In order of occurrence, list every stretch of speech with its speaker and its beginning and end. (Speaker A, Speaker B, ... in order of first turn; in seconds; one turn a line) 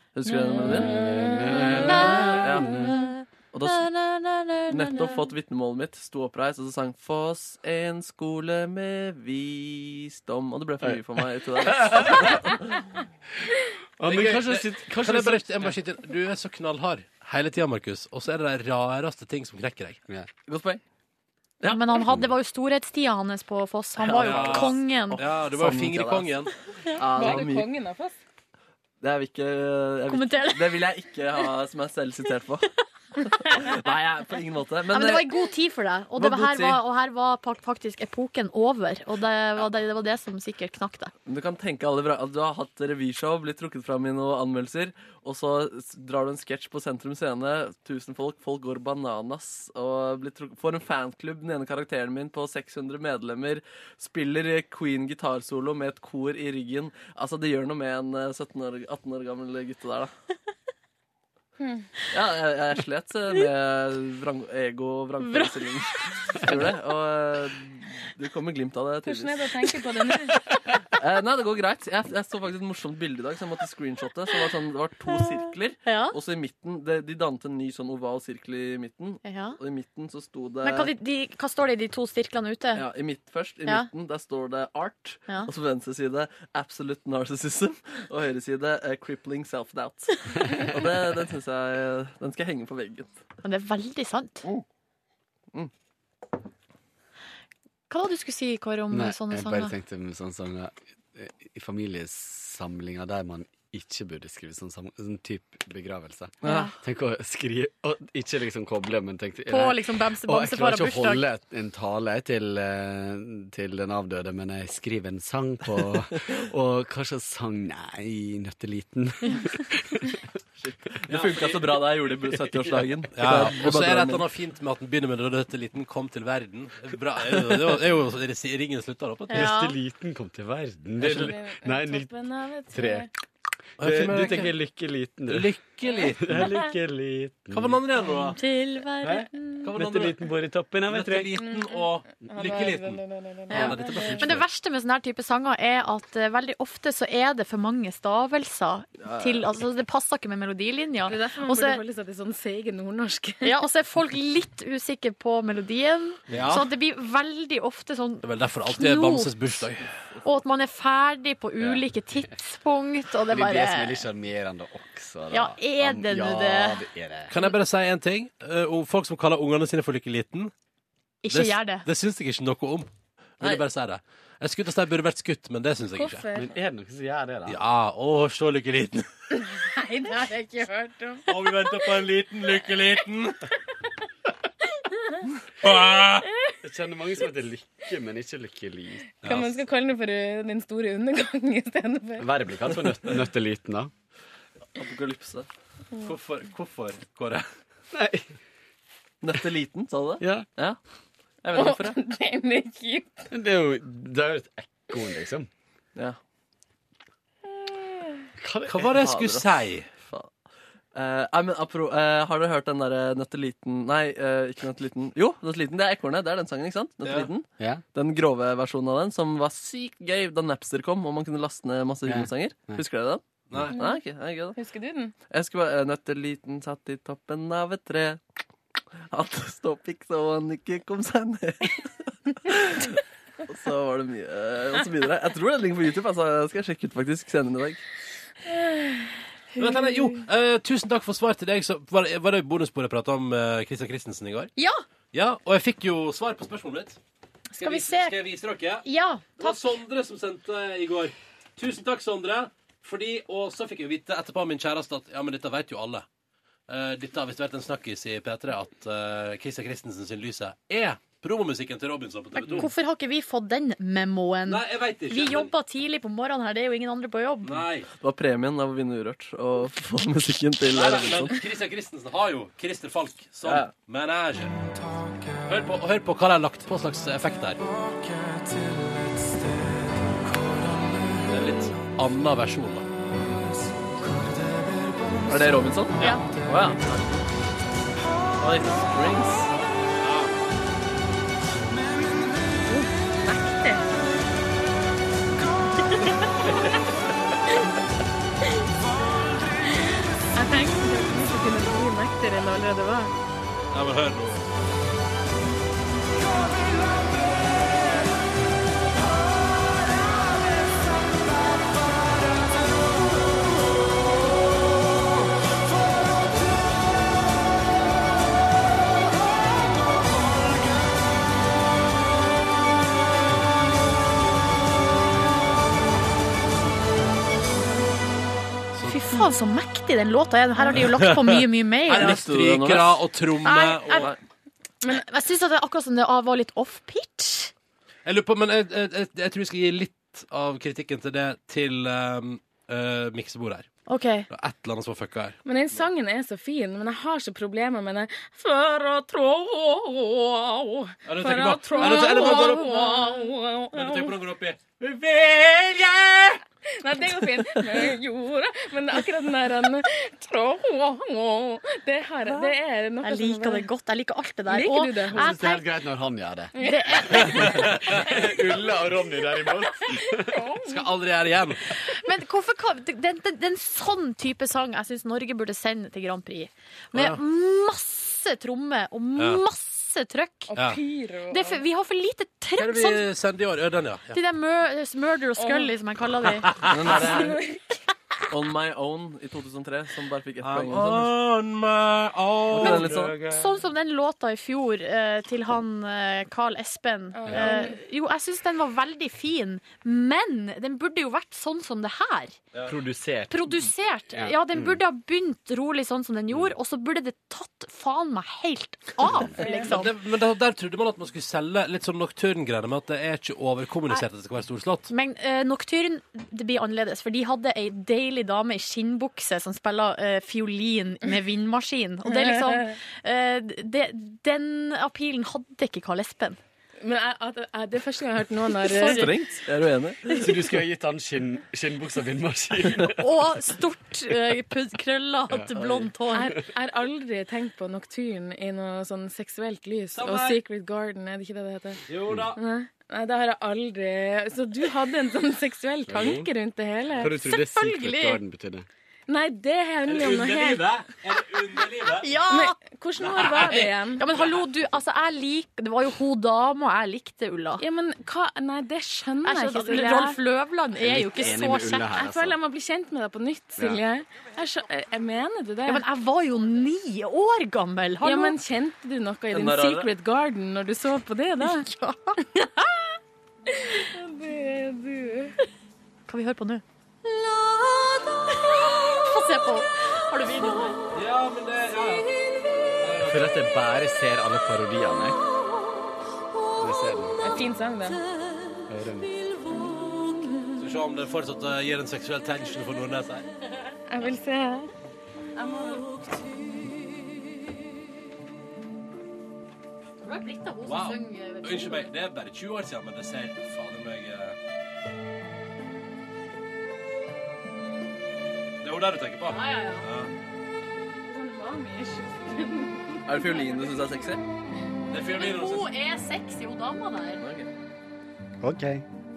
Speaker A: 0.1-1.0
Speaker B: 0.3-0.9
Speaker C: 0.5-3.0
Speaker D: 0.9-1.7
Speaker B: 1.5-5.2
Speaker A: 1.6-2.9
Speaker A: 3.5-3.9
Speaker A: 4.7-12.6
Speaker C: 11.6-12.6
Speaker C: 14.0-15.8
Speaker E: 14.1-20.0
Speaker A: 20.5-20.8
Speaker A: 21.6-22.0
Speaker B: 21.6-25.2
Speaker A: 24.0-26.4
Speaker E: 24.2-26.5
Speaker A: 26.9-27.7
Speaker D: 27.1-28.2
Speaker A: 29.0-35.4
Speaker B: 30.1-30.8
Speaker B: 33.3-33.8
Speaker B: 34.9-41.1
Speaker A: 36.2-36.8
Speaker A: 41.3-60.1
Speaker D: 61.6-61.9
Speaker A: 62.1-69.5
Speaker B: 65.2-65.7
Speaker D: 69.1-70.4
Speaker A: 70.9-80.9
Speaker B: 75.8-76.2
Speaker B: 79.2-79.6
Speaker B: 80.6-82.8
Speaker A: 82.8-93.1
Speaker B: 93.4-94.5
Speaker B: 97.9-99.7
Speaker C: 98.9-120.2
Speaker A: 106.4-106.7
Speaker B: 106.4-106.7
Speaker B: 109.5-111.2
Speaker A: 120.6-124.2
Speaker E: 121.1-121.6
Speaker C: 122.1-123.5
Speaker E: 123.2-129.5
Speaker A: 127.3-127.7
Speaker C: 129.3-132.1
Speaker B: 129.3-129.8
Speaker D: 131.1-133.1
Speaker C: 132.7-133.1
Speaker C: 133.8-137.8
Speaker E: 133.8-134.5
Speaker E: 135.3-136.4
Speaker E: 137.5-138.4
Speaker B: 138.0-139.7
Speaker C: 139.0-141.4
Speaker E: 139.6-140.2
Speaker E: 140.9-144.4
Speaker D: 141.4-144.2
Speaker B: 143.5-151.8
Speaker C: 143.6-144.2
Speaker A: 149.0-149.4
Speaker D: 151.1-153.6
Speaker B: 153.4-159.7
Speaker E: 156.3-156.7
Speaker E: 158.2-159.9
Speaker B: 160.2-164.1
Speaker C: 161.6-162.4
Speaker C: 163.1-167.3
Speaker B: 165.3-166.8
Speaker E: 167.3-170.5
Speaker B: 171.2-171.9
Speaker E: 171.3-176.3
Speaker D: 176.0-176.5
Speaker C: 176.3-177.6
Speaker E: 177.5-179.1
Speaker D: 179.3-181.4
Speaker E: 181.3-183.4
Speaker D: 184.9-185.2
Speaker E: 185.6-186.3
Speaker C: 186.6-189.1
Speaker D: 189.2-192.3
Speaker E: 189.2-189.6
Speaker C: 192.2-193.9
Speaker A: 194.8-195.5
Speaker E: 196.0-197.4
Speaker C: 197.9-198.3
Speaker A: 199.2-200.8
Speaker C: 200.2-200.5
Speaker A: 201.4-202.0
Speaker D: 201.6-203.3
Speaker C: 203.3-205.5
Speaker D: 207.6-208.2
Speaker C: 208.4-208.9
Speaker E: 208.7-209.9
Speaker A: 208.8-210.3
Speaker A: 210.9-224.6
Speaker E: 217.0-217.3
Speaker C: 222.1-222.8
Speaker D: 223.7-224.0
Speaker D: 224.6-225.1
Speaker A: 225.3-228.2
Speaker A: 229.1-237.8
Speaker D: 238.5-239.1
Speaker E: 239.6-244.5
Speaker B: 244.6-244.8
Speaker E: 245.1-247.0
Speaker B: 247.5-248.2
Speaker E: 247.6-248.9
Speaker B: 248.8-249.6
Speaker E: 249.4-256.1
Speaker E: 256.7-262.7
Speaker B: 262.4-267.6
Speaker E: 264.5-265.5
Speaker E: 267.4-267.9
Speaker A: 268.0-271.4
Speaker E: 270.7-274.6
Speaker A: 273.4-273.7
Speaker E: 275.5-277.6
Speaker E: 281.3-282.9
Speaker A: 281.4-281.6
Speaker A: 285.3-286.7
Speaker E: 286.0-287.0
Speaker A: 288.4-289.5
Speaker E: 290.0-290.3
Speaker D: 292.7-293.8
Speaker D: 300.4-303.1
Speaker E: 303.7-304.5
Speaker E: 328.7-329.2
Speaker B: 328.9-332.2
Speaker E: 330.7-334.1
Speaker A: 332.0-333.1
Speaker B: 333.4-334.1
Speaker B: 334.8-337.5
Speaker E: 338.1-343.7
Speaker B: 343.9-344.3
Speaker E: 344.3-345.4
Speaker D: 345.4-354.1
Speaker E: 351.1-353.0
Speaker B: 351.8-353.0
Speaker E: 353.7-356.4
Speaker D: 356.7-363.7
Speaker B: 363.0-365.6
Speaker D: 364.5-365.4
Speaker C: 365.1-366.6
Speaker D: 366.6-367.5
Speaker B: 366.6-367.8
Speaker E: 367.3-367.8
Speaker C: 367.5-370.5
Speaker D: 369.8-370.9
Speaker E: 370.6-371.6
Speaker B: 371.7-380.5
Speaker E: 376.9-377.2
Speaker E: 379.2-379.4
Speaker D: 380.5-381.6
Speaker E: 380.5-380.8
Speaker B: 381.3-383.1
Speaker E: 382.6-384.2
Speaker B: 384.1-387.0
Speaker D: 385.4-385.7
Speaker E: 386.4-387.1
Speaker A: 386.7-387.4
Speaker D: 387.1-387.6
Speaker A: 388.3-391.1
Speaker E: 390.4-393.2
Speaker A: 392.6-393.2
Speaker B: 392.6-402.4
Speaker C: 392.9-393.4
Speaker D: 397.2-397.8
Speaker C: 397.3-397.6
Speaker C: 402.7-404.8
Speaker B: 403.3-409.9
Speaker D: 409.4-409.7
Speaker E: 409.6-414.9
Speaker B: 414.9-426.4
Speaker D: 422.3-422.7
Speaker D: 426.8-429.1
Speaker B: 428.6-429.2
Speaker A: 428.8-430.4
Speaker C: 430.1-433.4
Speaker B: 432.9-436.3
Speaker C: 435.3-435.9
Speaker D: 436.1-441.8
Speaker E: 439.9-440.4
Speaker E: 441.9-442.4
Speaker D: 442.4-447.4
Speaker C: 445.9-446.3
Speaker C: 447.0-448.7
Speaker B: 447.3-448.2
Speaker D: 449.1-450.7
Speaker E: 449.9-452.2
Speaker B: 452.0-452.6
Speaker D: 452.3-454.0
Speaker E: 453.0-454.5
Speaker B: 454.0-457.6
Speaker D: 457.6-460.2
Speaker B: 459.2-461.9
Speaker C: 460.8-462.4
Speaker D: 461.9-465.9
Speaker C: 463.6-463.8
Speaker B: 465.7-468.4
Speaker D: 468.0-471.7
Speaker A: 469.3-469.9
Speaker B: 471.4-472.7
Speaker D: 473.5-475.4
Speaker B: 476.1-480.8
Speaker E: 480.9-482.1
Speaker E: 482.8-483.4
Speaker C: 483.0-485.2
Speaker C: 486.6-487.2
Speaker D: 487.2-488.0
Speaker C: 488.7-489.1
Speaker E: 490.6-493.3
Speaker D: 493.9-494.7
Speaker B: 500.0-501.9
Speaker E: 500.6-504.4
Speaker E: 508.6-510.1
Speaker B: 509.3-509.9
Speaker D: 511.0-514.1
Speaker A: 513.1-514.2
Speaker E: 514.9-515.7
Speaker B: 515.1-517.2
Speaker A: 517.2-517.5
Speaker C: 518.4-518.9